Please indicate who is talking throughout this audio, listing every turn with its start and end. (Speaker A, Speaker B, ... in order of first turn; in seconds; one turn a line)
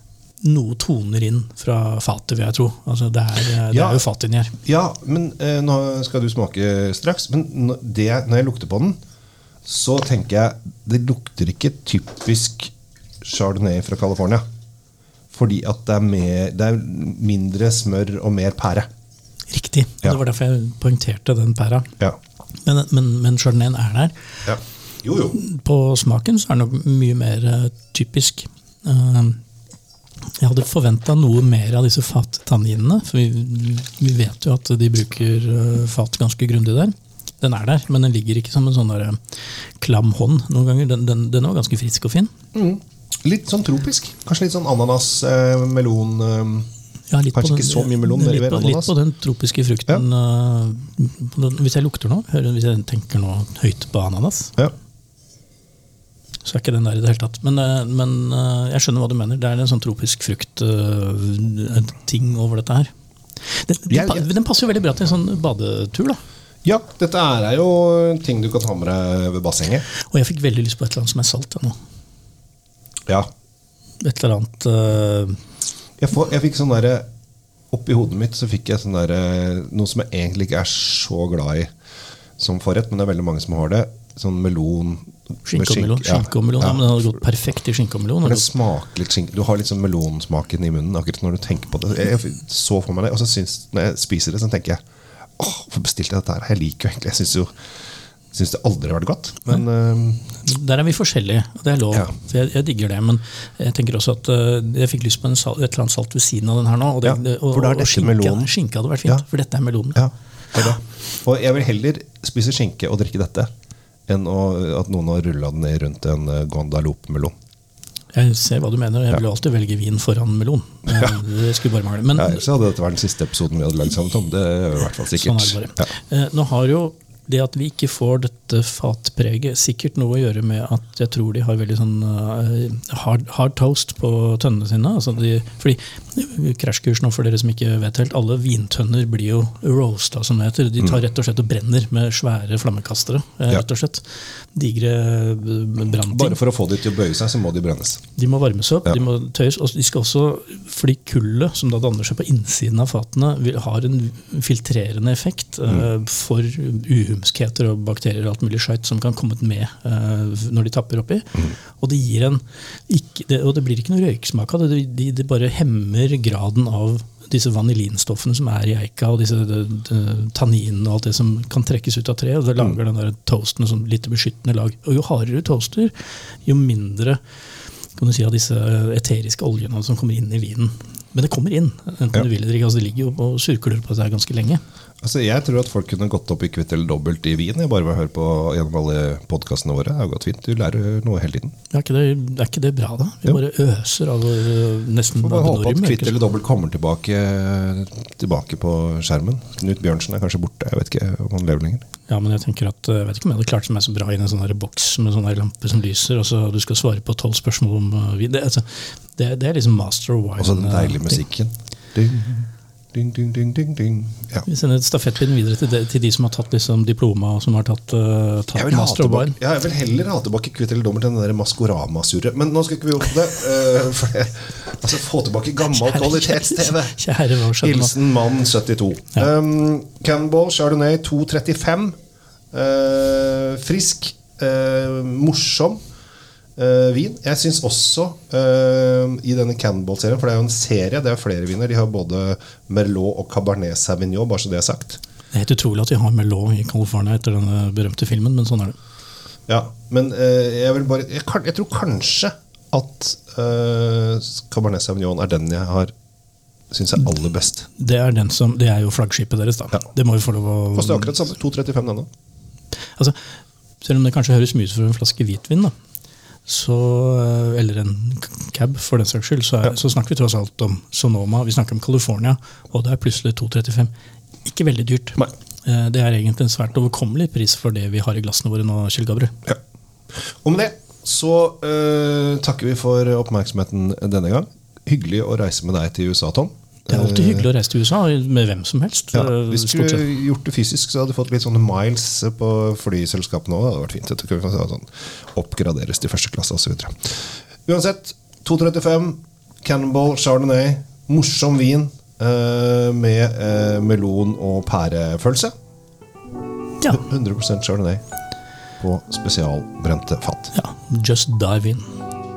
Speaker A: 0.4-4.5
Speaker B: 3.7-4.0
Speaker B: 4.6-9.0
Speaker B: 9.6-12.7
Speaker B: 13.2-14.4
Speaker B: 15.3-18.9
Speaker A: 19.5-21.9
Speaker A: 22.6-24.1
Speaker B: 24.4-25.4
Speaker A: 25.3-29.4
Speaker A: 30.4-39.2
Speaker A: 39.8-42.3
Speaker B: 42.5-46.7
Speaker A: 47.1-54.5
Speaker B: 47.3-48.9
Speaker A: 56.4-62.9
Speaker A: 63.5-66.2
Speaker B: 63.9-64.3
Speaker B: 66.6-69.8
Speaker A: 70.1-71.7
Speaker A: 74.0-75.4
Speaker B: 76.0-77.0
Speaker B: 77.7-81.7
Speaker B: 82.4-87.0
Speaker A: 85.5-88.5
Speaker B: 88.2-94.8
Speaker B: 95.4-97.5
Speaker B: 98.3-100.3
Speaker A: 100.4-110.0
Speaker B: 107.0-108.5
Speaker B: 109.9-113.5
Speaker B: 114.1-117.3
Speaker A: 118.1-122.5
Speaker B: 120.9-121.2
Speaker B: 122.1-125.9
Speaker A: 125.1-146.4
Speaker B: 146.1-148.0
Speaker A: 148.2-175.9
Speaker A: 176.4-177.2
Speaker A: 178.0-184.6
Speaker B: 185.0-191.5
Speaker A: 191.7-196.2
Speaker B: 195.1-201.8
Speaker A: 202.1-211.2
Speaker B: 210.4-214.4
Speaker A: 214.4-219.3
Speaker B: 218.5-227.0
Speaker A: 225.7-227.9
Speaker B: 227.6-231.9
Speaker B: 232.5-235.8
Speaker B: 236.6-245.0
Speaker A: 245.3-248.8
Speaker B: 249.5-255.9
Speaker B: 256.7-257.7
Speaker A: 257.8-261.2
Speaker B: 260.7-262.1
Speaker A: 263.8-265.7
Speaker A: 266.4-273.9
Speaker A: 274.4-279.4
Speaker B: 280.4-287.5
Speaker A: 286.9-290.1
Speaker B: 289.1-305.5
Speaker B: 306.9-308.0
Speaker B: 308.8-310.5
Speaker A: 310.5-311.9